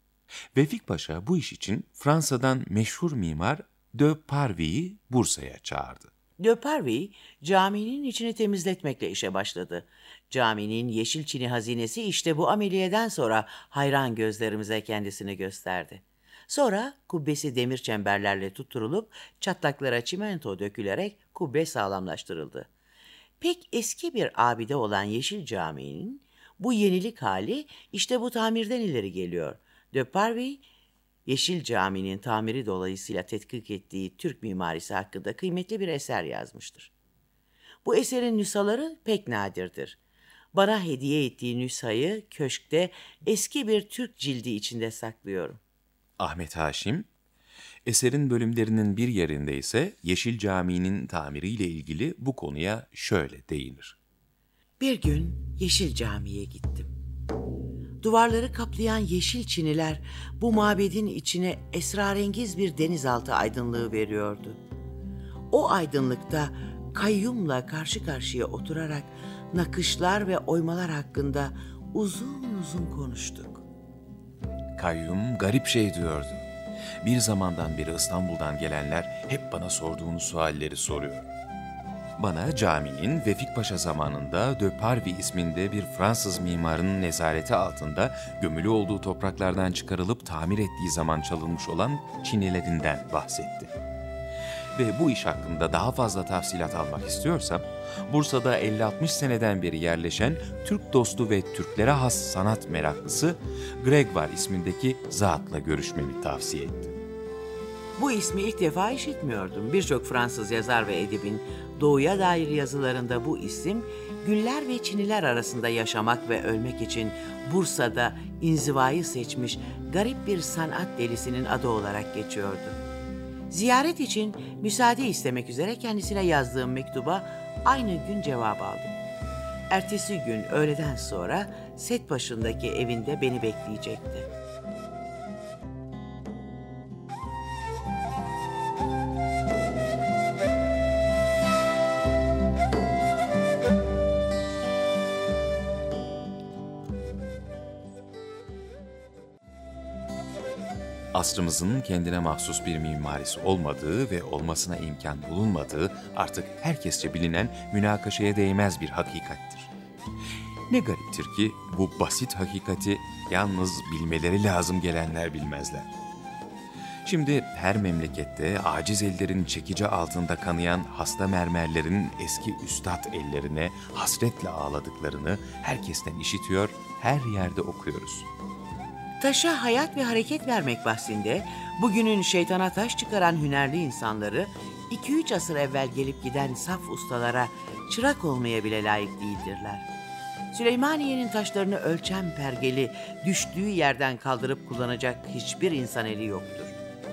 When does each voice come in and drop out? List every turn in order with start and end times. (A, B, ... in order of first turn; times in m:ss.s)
0:00.5-0:06.1 A
0:06.4-0:22.7 B
0:23.4-0:30.6 B
0:31.3-0:36.9 B
0:37.8-0:40.0 B
0:40.5-0:45.6 B
0:46.2-0:47.1 A
0:47.9-0:54.0 A
0:54.8-0:56.9 B
0:58.0-1:04.6 B
1:05.5-1:13.6 B
1:14.8-1:16.5 A
1:17.0-1:21.3 A
1:22.2-1:33.7 A
1:34.8-1:47.0 A
1:48.0-2:02.8 B
2:03.5-2:09.0 B
2:09.7-2:14.3 B
2:31.1-2:39.7 A
2:40.7-2:45.9 A
2:47.0-2:58.3 A
2:59.2-3:09.9 B
3:10.5-3:16.8 B